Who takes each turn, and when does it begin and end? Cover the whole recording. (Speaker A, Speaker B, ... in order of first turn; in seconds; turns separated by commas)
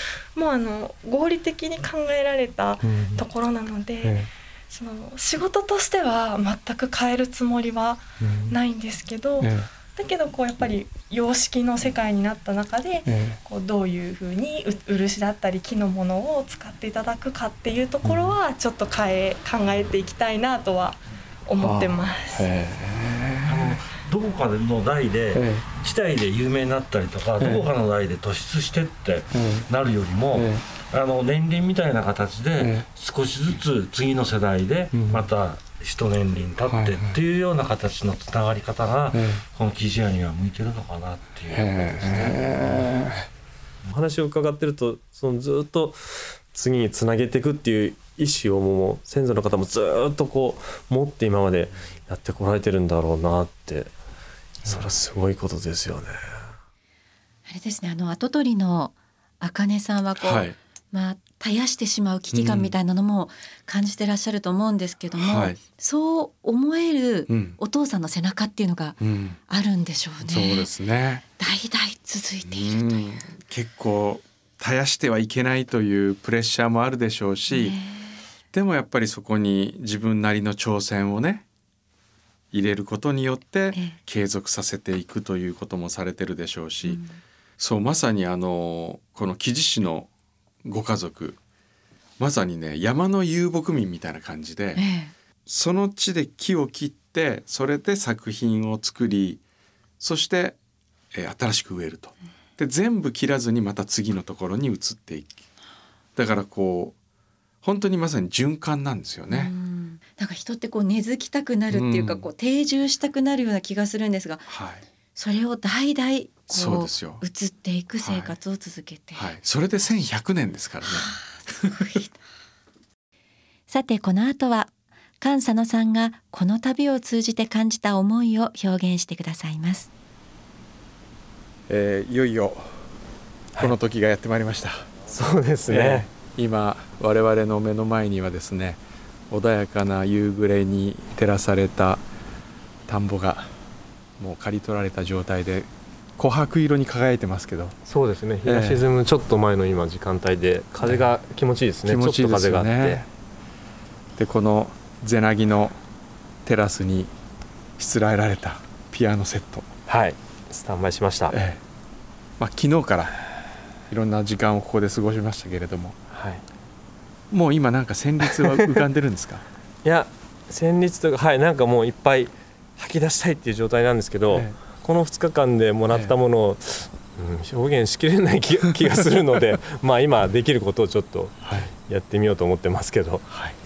Speaker A: 0.3-22.5, Speaker B: 2.8-3.2, Speaker B: 4.0-4.3, Speaker B: 8.2-8.5, Speaker B: 9.4-9.7, Speaker B: 13.0-13.4, Speaker B: 18.0-18.4, Speaker B: 21.6-23.8, Speaker C: 23.4-42.8, Speaker B: 25.3-25.6, Speaker B: 27.4-27.7, Speaker B: 29.3-29.6, Speaker B: 30.3-30.6, Speaker B: 32.6-32.9, Speaker B: 34.9-35.3, Speaker B: 36.6-37.1, Speaker B: 39.1-39.4, Speaker B: 41.5-43.3, Speaker D: 43.9-53.9, Speaker D: 54.6-56.1, Speaker E: 57.5-70.7, Speaker B: 60.2-60.5, Speaker B: 62.3-62.7, Speaker B: 65.2-65.6, Speaker B: 67.3-67.6, Speaker B: 69.0-69.4, Speaker B: 70.2-71.2, Speaker E: 71.4-73.0, Speaker B: 72.5-77.8, Speaker E: 77.5-78.2, Speaker B: 78.5-81.5, Speaker B: 82.5-87.0, Speaker E: 86.8-87.2, Speaker B: 87.6-90.1, Speaker B: 90.6-91.4, Speaker B: 92.2-94.8, Speaker E: 94.8-95.1, Speaker B: 95.5-99.4, Speaker B: 100.0-100.6, Speaker B: 101.1-105.4, Speaker B: 106.2-107.0, Speaker B: 107.6-109.5, Speaker E: 109.3-114.5, Speaker B: 111.7-112.2, Speaker B: 114.5-114.8, Speaker E: 115.1-119.3, Speaker B: 116.5-117.2, Speaker B: 118.0-118.3, Speaker B: 119.1-121.8, Speaker E: 120.9-122.1, Speaker E: 123.7-129.9, Speaker B: 131.7-132.8, Speaker B: 133.6-134.9, Speaker D: 135.1-136.1, Speaker B: 135.7-142.0, Speaker B: 142.9-143.5, Speaker B: 144.2-147.8, Speaker D: 147.9-153.0, Speaker B: 148.4-148.9, Speaker B: 150.8-151.1, Speaker B: 151.8-153.1, Speaker B: 154.2-155.8, Speaker B: 156.4-157.1, Speaker B: 157.8-159.7, Speaker D: 159.9-161.3, Speaker B: 161.3-161.6, Speaker B: 162.4-163.2, Speaker B: 163.9-166.0, Speaker D: 166.1-166.4, Speaker B: 167.3-169.4, Speaker D: 169.8-183.6, Speaker B: 174.3-174.6